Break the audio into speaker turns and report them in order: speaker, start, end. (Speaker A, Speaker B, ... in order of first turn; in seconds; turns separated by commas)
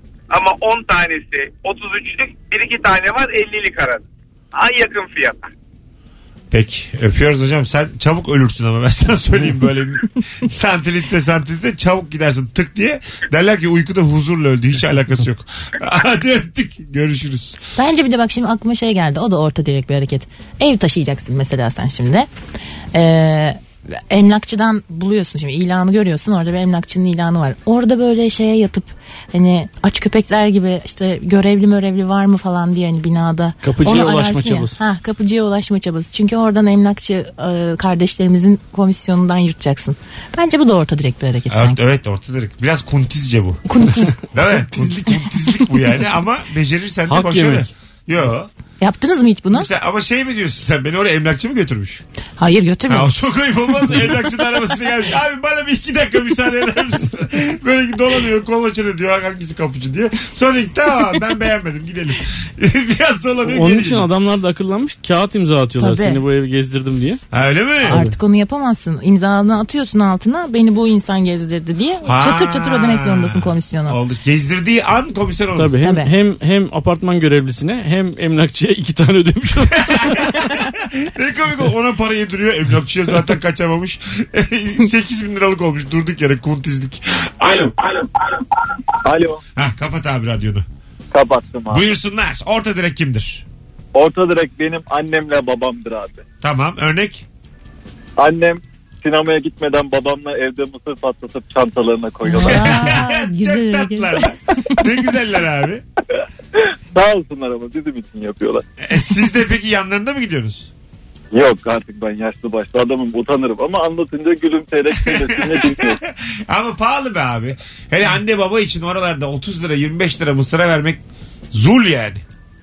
Speaker A: 0.3-4.0, Speaker A: 4.5-5.5, Speaker B: 6.5-17.6, Speaker C: 17.8-22.3, Speaker C: 22.9-41.8, Speaker D: 33.6-34.8, Speaker B: 41.5-43.6, Speaker C: 43.7-44.1, Speaker B: 44.2-48.5, Speaker D: 47.1-47.7, Speaker C: 48.8-49.7, Speaker B: 49.5-52.0, Speaker C: 52.4-53.1, Speaker B: 52.9-64.1, Speaker D: 63.5-67.2, Speaker C: 65.8-66.2, Speaker B: 67.3-68.0, Speaker C: 67.8-74.0, Speaker D: 67.9-68.1, Speaker B: 72.0-75.8, Speaker D: 75.5-80.1, Speaker C: 75.8-76.1, Speaker B: 79.8-88.1, Speaker E: 89.0-89.4, Speaker B: 89.5-90.6, Speaker E: 91.1-91.8, Speaker B: 91.7-93.4, Speaker E: 93.9-96.2, Speaker B: 96.4-97.2, Speaker E: 98.2-102.6, Speaker C: 102.2-104.3, Speaker B: 102.4-105.8, Speaker E: 106.9-108.6, Speaker B: 108.8-110.7, Speaker E: 111.3-116.0, Speaker B: 115.0-121.0, Speaker B: 121.5-122.2